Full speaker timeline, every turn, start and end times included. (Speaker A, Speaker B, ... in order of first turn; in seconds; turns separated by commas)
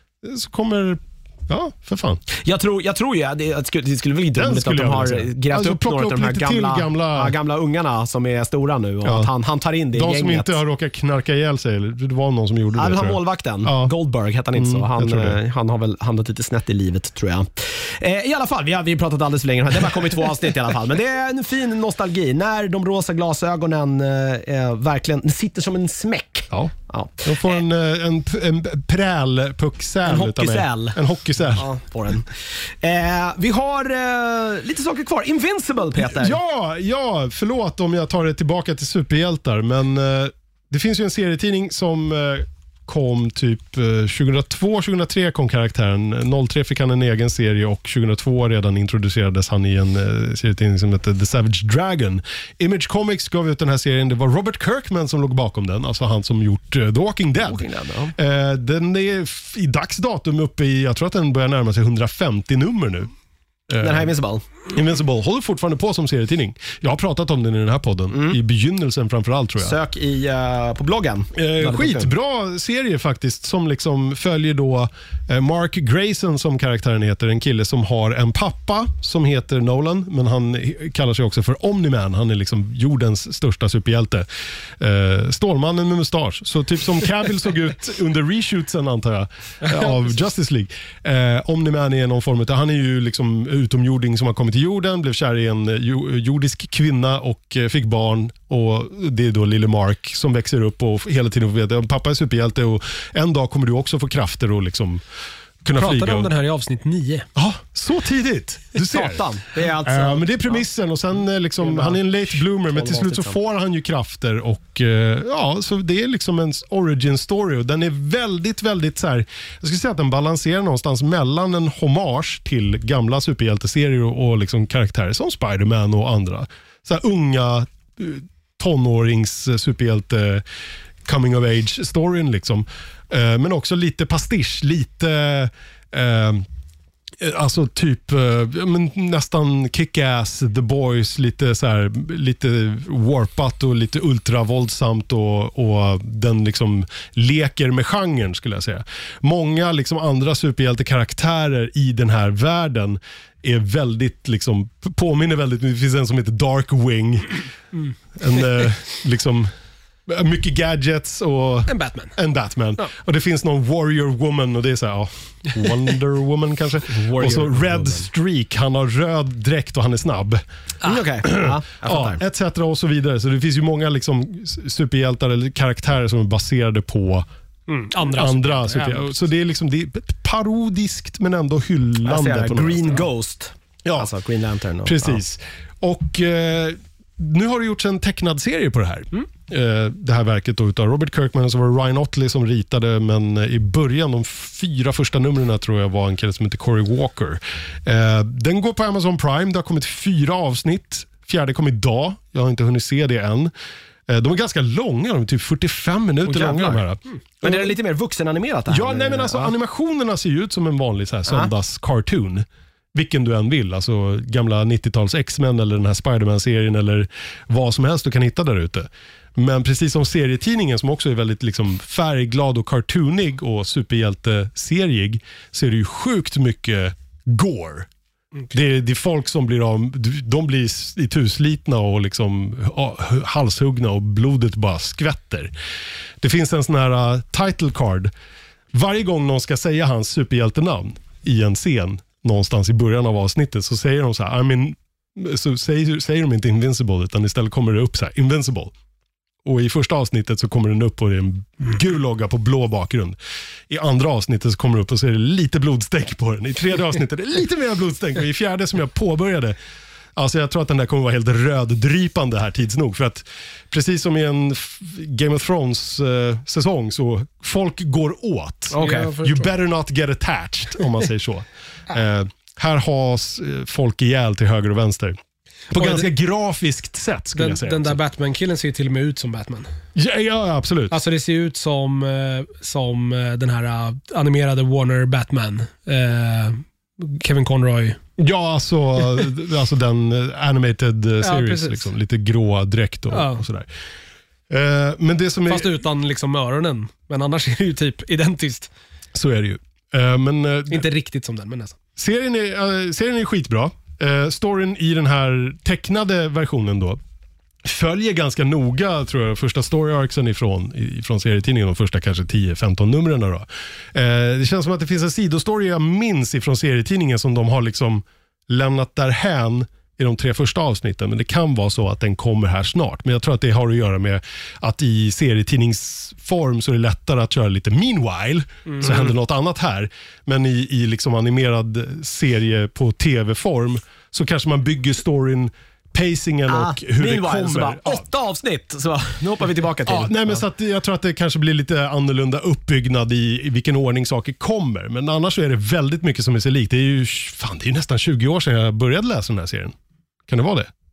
Speaker A: 0.2-2.2, Speaker B: 2.4-10.6, Speaker A: 4.3-7.3, Speaker A: 9.0-9.3, Speaker A: 9.9-13.9, Speaker B: 12.8-27.6, Speaker A: 14.6-15.4, Speaker A: 27.2-31.7, Speaker B: 30.0-31.0, Speaker B: 31.5-36.4, Speaker A: 36.0-63.1, Speaker B: 57.4-58.1, Speaker A: 63.7-64.1, Speaker B: 63.8-64.4, Speaker A: 64.7-69.8, Speaker B: 68.1-68.4, Speaker B: 69.6-72.1, Speaker A: 71.3-84.2, Speaker A: 84.8-105.0, Speaker A: 105.6-106.3, Speaker C: 105.8-107.2, Speaker A: 107.3-130.4, Speaker B: 108.8-110.6, Speaker B: 111.6-113.4, Speaker A: 131.0-136.4, Speaker A: 137.2-157.4, Speaker A: 158.1-159.5, Speaker A: 160.1-170.4, Speaker C: 161.7-162.1, Speaker B: 166.9-168.1, Speaker B: 170.8-172.2, Speaker A: 171.2-177.2, Speaker C: 177.7-179.1, Speaker A: 178.0-183.0, Speaker B: 182.0-185.2, Speaker A: 184.8-203.5, Speaker A: 204.1-207.7, Speaker B: 206.2-206.8, Speaker B: 207.4-209.5, Speaker A: 208.7-227.9, Speaker A: 228.5-235.5, Speaker A: 236.2-238.1, Speaker A: 238.7-248.7, Speaker A: 249.4-253.2, Speaker A: 253.7-259.6, Speaker A: 260.1-275.2, Speaker B: 268.7-269.1, Speaker C: 268.8-269.5, Speaker A: 275.7-278.0, Speaker C: 275.8-276.1, Speaker C: 277.3-279.7, Speaker A: 279.9-281.0, Speaker C: 280.9-288.0, Speaker A: 288.2-293.7, Speaker C: 291.2-291.9, Speaker C: 293.1-293.4, Speaker A: 294.5-295.7, Speaker C: 295.5-298.7, Speaker A: 299.1-300.9, Speaker C: 300.7-301.8, Speaker A: 302.0-307.0, Speaker A: 307.6-338.0, Speaker B: 336.5-340.4, Speaker A: 339.9-349.7, Speaker A: 350.3-350.7